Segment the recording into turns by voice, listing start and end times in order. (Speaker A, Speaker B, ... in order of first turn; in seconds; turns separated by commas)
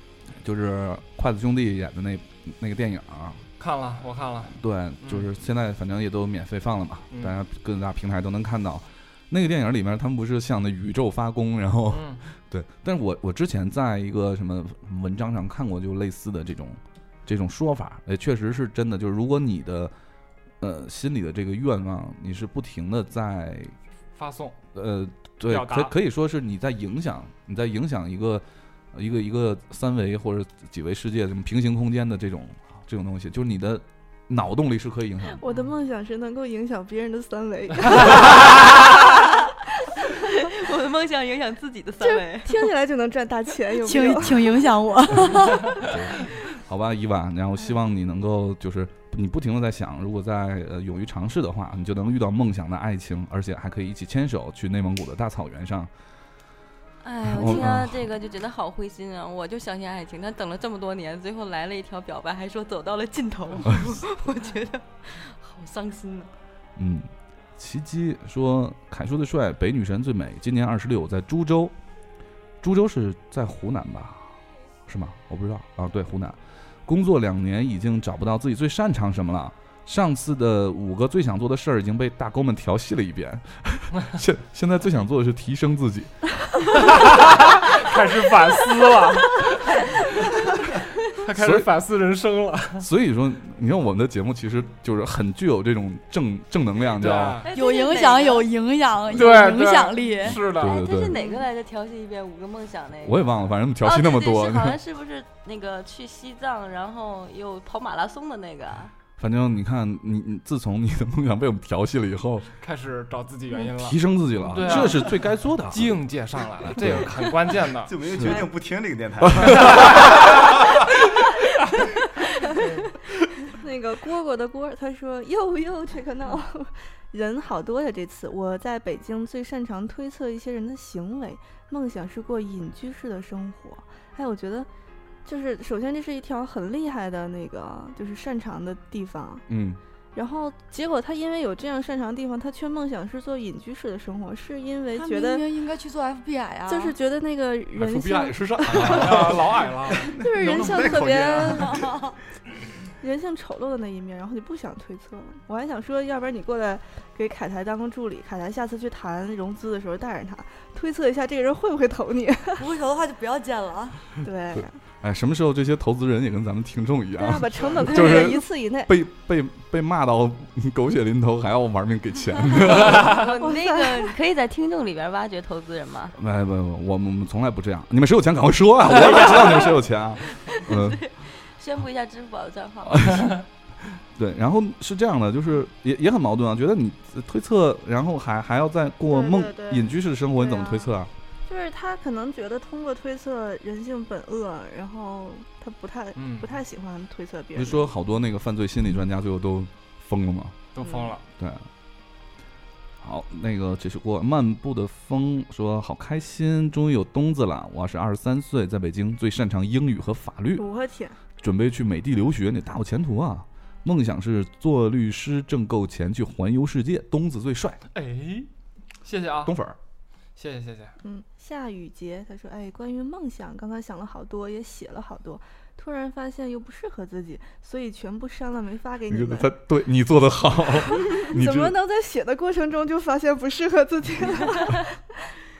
Speaker A: 0.4-3.4, Speaker B: 3.6-5.3, Speaker A: 4.5-19.9, Speaker B: 7.1-7.4, Speaker B: 11.9-12.3, Speaker A: 20.6-23.8, Speaker B: 24.1-24.6, Speaker A: 24.8-35.4, Speaker B: 25.5-25.9, Speaker C: 35.3-40.1, Speaker D: 40.2-42.7, Speaker C: 42.0-44.7, Speaker E: 43.8-45.9, Speaker A: 45.9-55.9, Speaker D: 57.0-66.3, Speaker A: 57.2-58.0, Speaker A: 66.8-71.7, Speaker A: 72.6-74.3, Speaker A: 74.9-86.2, Speaker B: 86.8-90.2, Speaker B: 91.1-92.9, Speaker A: 91.3-91.7, Speaker A: 92.8-97.4, Speaker B: 97.0-97.5, Speaker D: 97.4-98.5, Speaker E: 97.5-100.4, Speaker B: 99.1-100.8, Speaker A: 100.2-101.2, Speaker D: 100.6-103.3, Speaker C: 101.1-101.4, Speaker A: 103.0-104.8, Speaker D: 103.8-108.9, Speaker A: 109.2-112.5, Speaker B: 112.6-118.0, Speaker A: 113.7-116.0, Speaker A: 116.7-117.1, Speaker F: 117.9-120.9, Speaker A: 118.2-118.4, Speaker A: 119.2-119.8, Speaker C: 123.5-134.7, Speaker C: 135.2-139.4, Speaker A: 139.5-139.8, Speaker C: 140.2-145.5, Speaker E: 145.0-147.0, Speaker C: 146.7-152.0, Speaker B: 147.8-150.1, Speaker A: 148.1-149.3, Speaker F: 148.8-152.0, Speaker C: 153.0-162.7, Speaker E: 162.6-164.1, Speaker C: 164.2-164.8, Speaker A: 164.6-173.2, Speaker C: 167.2-168.9, Speaker D: 172.8-176.2, Speaker C: 173.4-174.2, Speaker A: 176.2-181.1, Speaker B: 179.0-179.4, Speaker D: 180.3-183.2, Speaker A: 182.8-183.4, Speaker A: 184.0-191.1, Speaker C: 189.1-190.9, Speaker C: 191.5-197.9, Speaker B: 196.2-196.6, Speaker A: 197.6-200.6, Speaker B: 200.8-201.2, Speaker A: 201.4-201.7, Speaker A: 203.0-210.7, Speaker C: 210.6-211.2, Speaker A: 211.4-217.8, Speaker B: 217.9-218.5, Speaker B: 219.0-219.6, Speaker A: 219.4-219.8, Speaker B: 220.4-221.0, Speaker C: 221.0-229.5, Speaker A: 229.1-231.8, Speaker C: 230.9-235.3